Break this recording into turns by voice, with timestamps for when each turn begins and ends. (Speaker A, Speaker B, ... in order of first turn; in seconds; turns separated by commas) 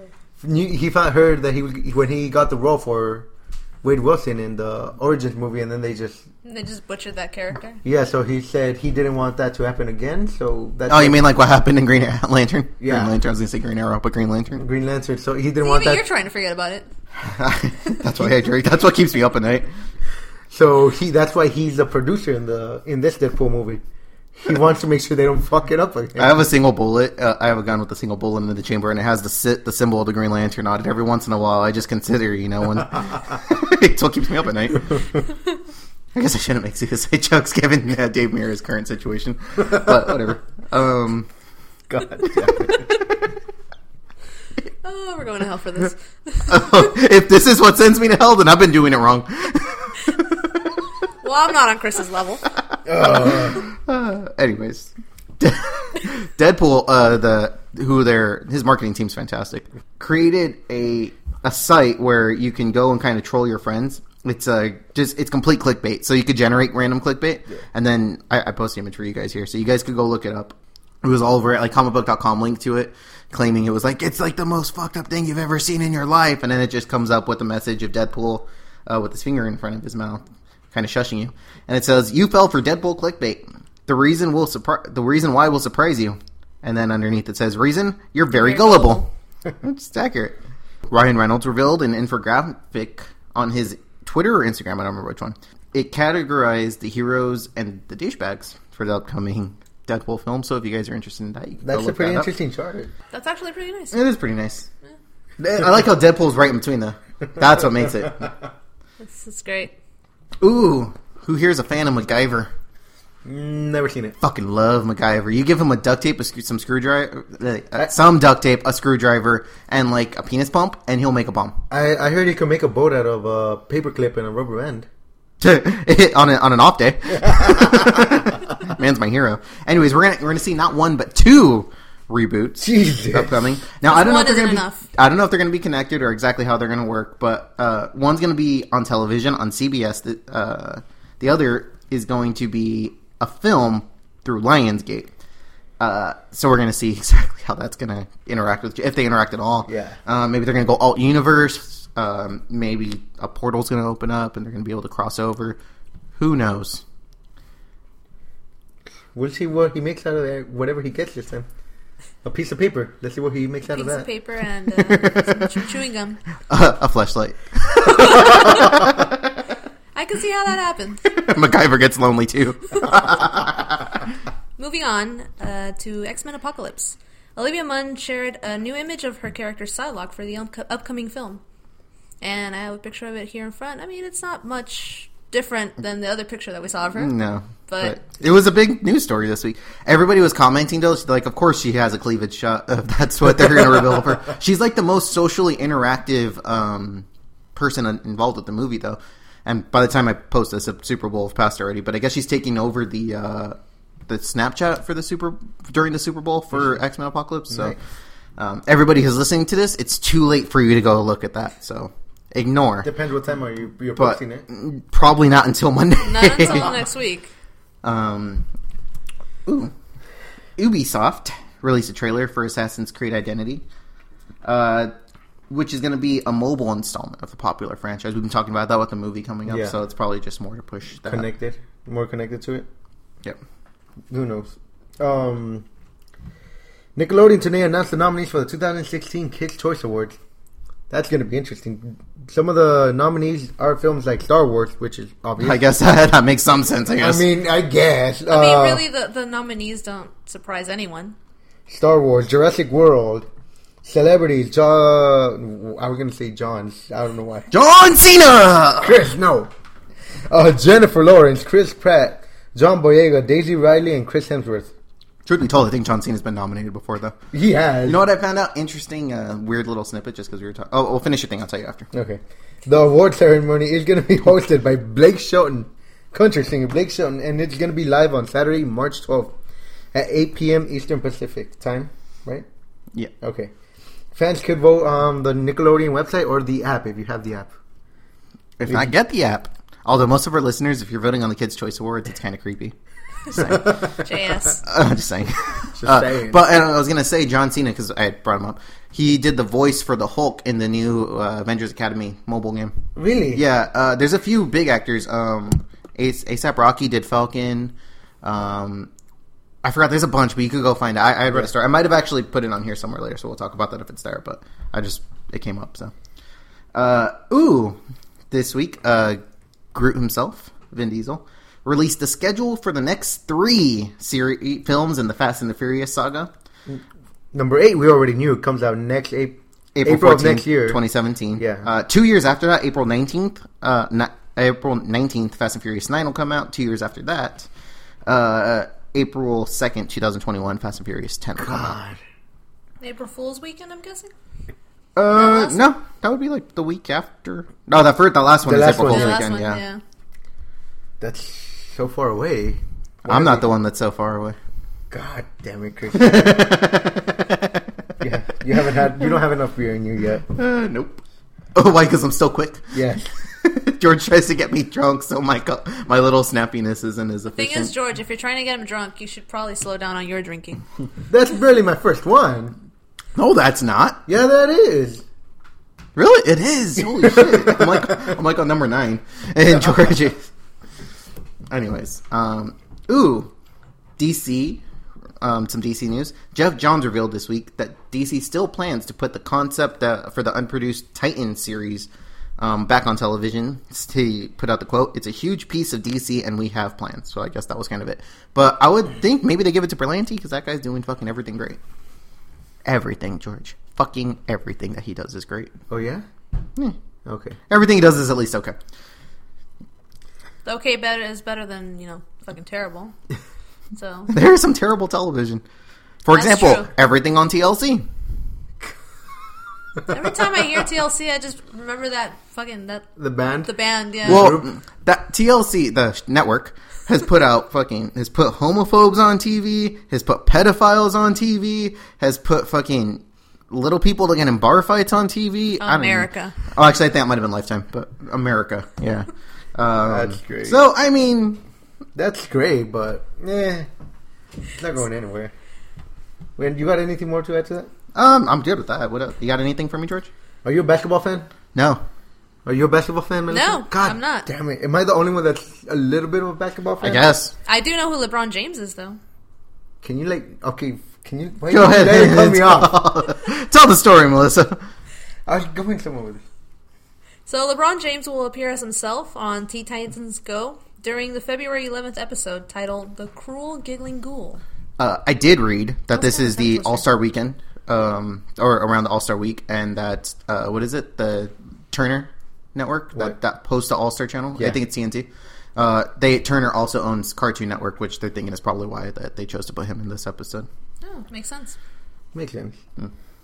Speaker A: 0.4-3.3, Speaker A: 3.8-6.2, Speaker B: 6.4-7.8, Speaker A: 7.8-11.2, Speaker C: 10.9-14.6, Speaker A: 12.8-13.1, Speaker A: 14.6-16.0, Speaker B: 15.6-16.9, Speaker C: 17.1-19.7, Speaker A: 20.5-23.8, Speaker A: 24.3-26.4, Speaker C: 26.2-35.0, Speaker C: 36.1-41.3, Speaker A: 41.9-42.8, Speaker B: 44.8-46.7, Speaker C: 46.5-50.5, Speaker B: 51.2-52.5, Speaker A: 52.9-53.6, Speaker C: 53.0-89.0, Speaker B: 88.3-89.0, Speaker C: 89.6-90.4, Speaker C: 90.9-102.3, Speaker A: 101.6-102.9, Speaker B: 103.1-104.0, Speaker C: 103.9-104.7, Speaker C: 105.4-108.3, Speaker B: 109.0-109.7, Speaker C: 110.4-112.5, Speaker A: 113.2-114.2, Speaker C: 114.2-121.6, Speaker A: 121.7-124.9, Speaker C: 125.4-145.1, Speaker A: 132.6-133.4, Speaker B: 133.8-134.8, Speaker C: 145.8-155.6, Speaker A: 149.7-150.0, Speaker C: 156.2-156.8, Speaker A: 159.1-161.5, Speaker A: 162.2-164.1, Speaker B: 163.7-166.2, Speaker C: 164.8-165.5, Speaker C: 166.5-169.2, Speaker B: 167.8-168.8, Speaker B: 169.9-171.0, Speaker C: 171.1-173.9, Speaker B: 174.6-181.4, Speaker B: 182.2-187.1, Speaker C: 186.9-203.6, Speaker B: 187.7-188.0, Speaker C: 204.1-207.8, Speaker A: 207.5-207.8, Speaker C: 208.4-212.9, Speaker A: 212.8-214.4, Speaker C: 213.9-216.8, Speaker B: 216.0-217.3, Speaker C: 217.8-218.5, Speaker C: 219.4-219.7, Speaker C: 220.6-223.6, Speaker C: 224.4-224.9, Speaker C: 225.5-231.3, Speaker A: 229.4-229.8, Speaker A: 231.1-232.7, Speaker A: 234.1-235.6, Speaker A: 236.9-240.2, Speaker A: 240.9-245.6, Speaker C: 245.4-247.2, Speaker A: 247.0-248.8, Speaker B: 248.3-251.2, Speaker A: 251.7-253.3, Speaker A: 253.8-257.5, Speaker C: 257.5-259.0, Speaker A: 258.8-259.5, Speaker A: 260.3-264.7, Speaker C: 265.2-267.1, Speaker A: 267.3-268.0, Speaker C: 267.8-271.9, Speaker A: 271.9-279.3, Speaker A: 279.9-282.4, Speaker A: 283.2-283.5, Speaker A: 284.1-287.5, Speaker C: 288.6-292.7, Speaker C: 293.3-293.9, Speaker A: 293.4-294.0, Speaker B: 293.9-294.6, Speaker C: 294.6-302.8, Speaker A: 295.7-296.4, Speaker A: 302.9-303.4, Speaker C: 303.3-308.9, Speaker C: 309.6-315.9, Speaker C: 316.7-317.8, Speaker C: 318.3-319.2, Speaker C: 319.7-326.3, Speaker A: 327.3-330.8, Speaker C: 329.7-337.5, Speaker A: 331.4-331.7, Speaker C: 338.1-341.7, Speaker A: 341.4-342.0, Speaker B: 342.8-344.1, Speaker C: 344.9-349.6, Speaker B: 345.1-345.6, Speaker A: 348.4-349.2, Speaker B: 348.8-349.8, Speaker A: 351.0-353.5, Speaker C: 353.1-354.4, Speaker A: 354.9-356.6, Speaker C: 355.9-357.6, Speaker A: 358.0-360.2, Speaker C: 360.3-361.0, Speaker C: 361.5-362.7, Speaker A: 362.7-363.1, Speaker C: 363.4-367.7, Speaker B: 367.3-370.6, Speaker A: 371.1-372.5, Speaker C: 373.1-374.0, Speaker A: 374.1-375.0, Speaker C: 375.9-380.3, Speaker A: 377.0-377.6, Speaker C: 381.5-383.3, Speaker C: 384.0-384.6, Speaker C: 385.2-401.6, Speaker C: 402.6-405.5, Speaker A: 405.7-406.0, Speaker A: 407.1-407.4, Speaker C: 407.5-408.6, Speaker B: 410.4-412.9, Speaker B: 413.7-414.1, Speaker C: 414.1-415.4, Speaker C: 416.0-417.9, Speaker B: 416.1-416.7, Speaker B: 419.9-422.9, Speaker A: 423.0-423.5, Speaker B: 423.4-424.3, Speaker A: 424.0-424.5, Speaker C: 424.0-441.4, Speaker B: 435.6-436.4, Speaker A: 439.8-440.6, Speaker A: 441.9-443.7, Speaker A: 444.5-445.3, Speaker A: 446.4-447.7, Speaker C: 447.9-450.1, Speaker A: 450.4-451.3, Speaker C: 451.5-451.8, Speaker A: 452.4-457.1, Speaker B: 453.3-454.3, Speaker C: 456.8-457.3, Speaker B: 457.4-459.0, Speaker A: 459.8-462.8, Speaker C: 461.5-464.6, Speaker A: 465.3-466.2, Speaker B: 467.2-474.4, Speaker C: 474.8-490.5, Speaker B: 475.9-476.8, Speaker B: 490.8-491.6, Speaker A: 492.1-492.6